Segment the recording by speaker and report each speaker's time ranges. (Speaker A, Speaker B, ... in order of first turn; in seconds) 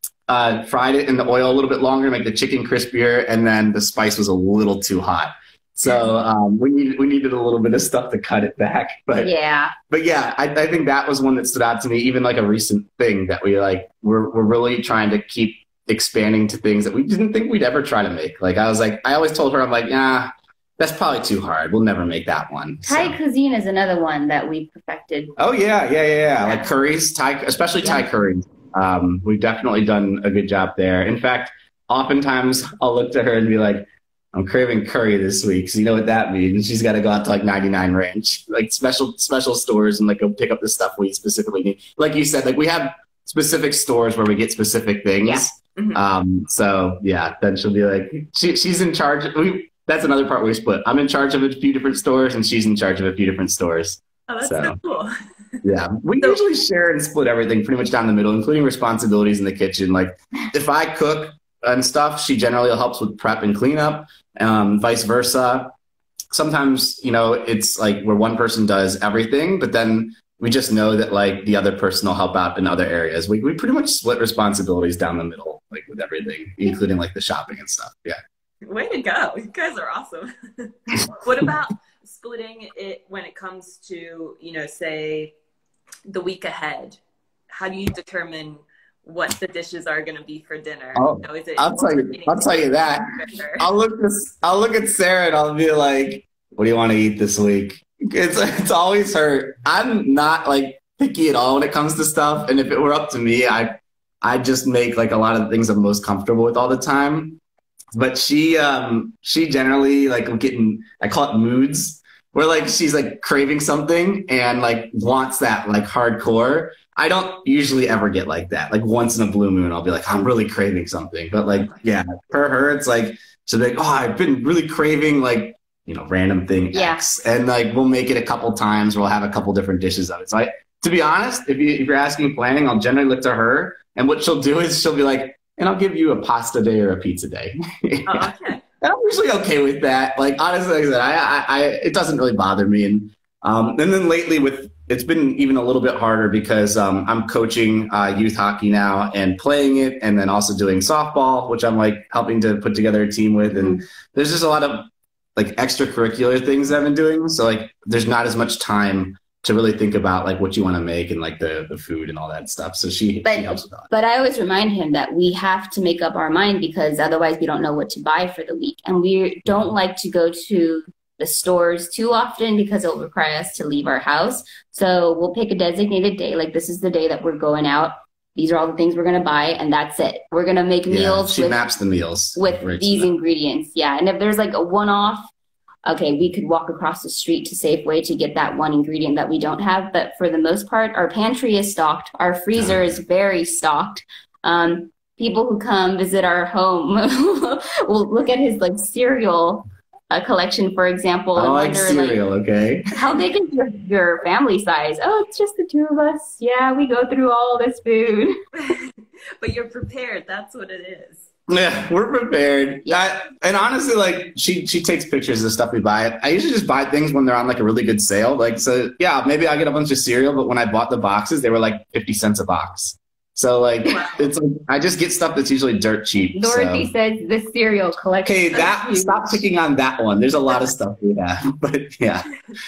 Speaker A: 0.3-9.3, 9.9-23.2, 25.4-54.8, 55.6-65.7, 66.3-78.2, 91.0-107.4, 107.9-163.9, 180.9-183.1, 192.6-193.0, 201.3-202.9, 211.5-226.9, 228.2-232.3
Speaker B: 9.2-9.8, 22.9-25.4, 45.2-45.5, 126.7-127.0, 153.6-153.8, 163.2-181.6, 182.3-185.3, 185.8-202.2, 202.9-208.4, 226.3-229.4
Speaker C: 45.8-46.0, 54.3-55.1, 78.7-85.3, 86.1-93.7, 138.1-138.6, 208.5-211.3, 223.9-224.3